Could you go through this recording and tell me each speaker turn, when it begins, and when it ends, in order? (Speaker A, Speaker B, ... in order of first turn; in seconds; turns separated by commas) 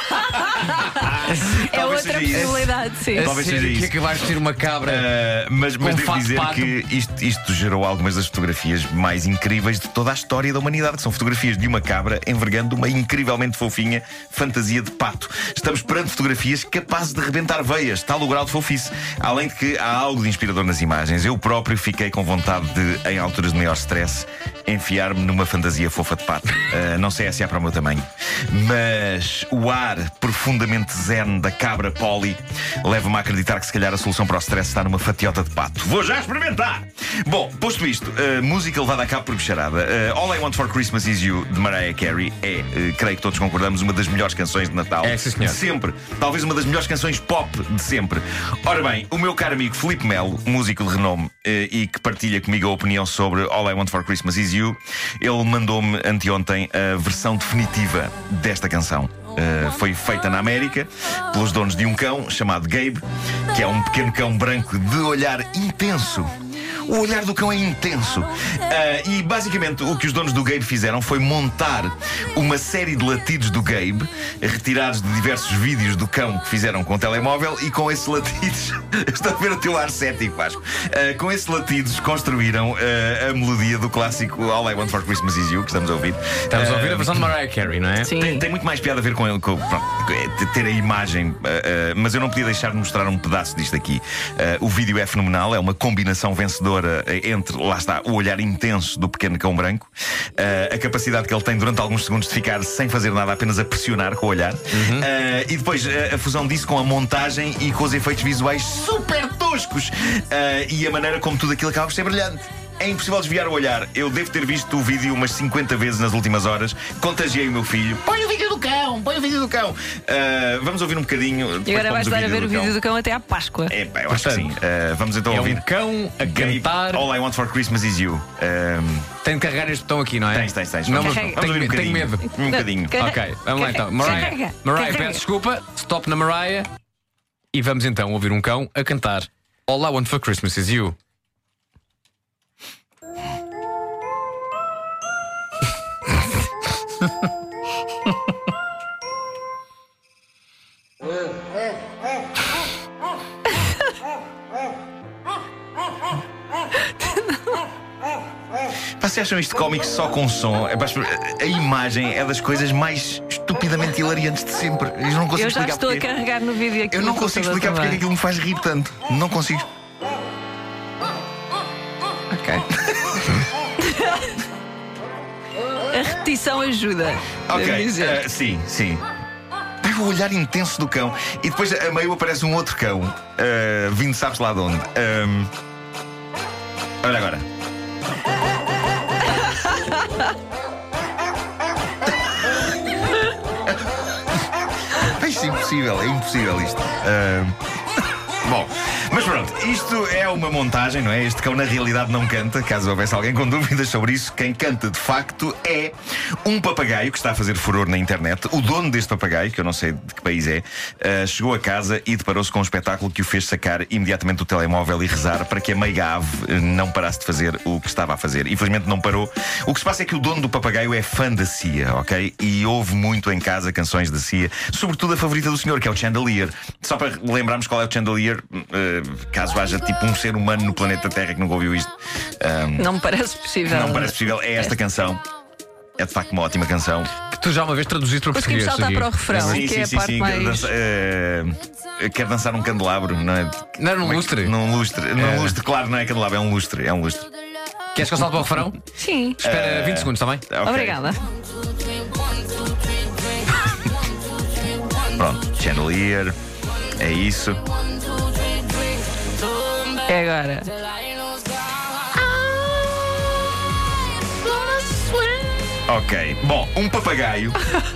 Speaker A: 0.1-3.3, Speaker B: 1.2-1.6, Speaker C: 1.4-4.1, Speaker B: 2.3-5.1, Speaker C: 4.8-87.3, Speaker B: 5.8-6.7, Speaker B: 45.0-45.6, Speaker B: 86.5-88.1, Speaker A: 88.0-88.5, Speaker C: 88.2-122.8, Speaker B: 104.7-105.1, Speaker A: 121.7-123.8, Speaker C: 123.7-125.7, Speaker B: 124.1-124.6, Speaker B: 125.3-127.1, Speaker C: 126.2-129.1, Speaker B: 129.2-132.3, Speaker C: 130.3-133.0, Speaker A: 130.9-131.4, Speaker A: 132.3-135.2, Speaker B: 132.9-136.7, Speaker B: 137.5-141.0, Speaker C: 159.0-166.1, Speaker A: 165.3-168.1, Speaker C: 166.9-169.7, Speaker A: 172.3-172.6, Speaker C: 172.9-173.4, Speaker A: 173.8-174.3, Speaker A: 175.9-178.2, Speaker C: 177.5-179.0, Speaker C: 179.8-185.5, Speaker C: 187.0-187.4, Speaker C: 195.0-232.9, Speaker A: 232.8-234.7, Speaker C: 233.7-235.2, Speaker C: 236.0-237.1, Speaker B: 237.3-239.6, Speaker A: 238.3-240.7, Speaker C: 239.3-247.3, Speaker B: 243.8-244.6, Speaker B: 245.2-245.6, Speaker B: 247.9-248.8, Speaker A: 249.0-249.4, Speaker B: 249.4-250.5, Speaker C: 249.4-251.0, Speaker A: 250.6-251.2, Speaker C: 255.2-256.4, Speaker C: 257.0-257.6, Speaker A: 260.0-260.7, Speaker A: 264.6-265.3, Speaker C: 265.9-267.6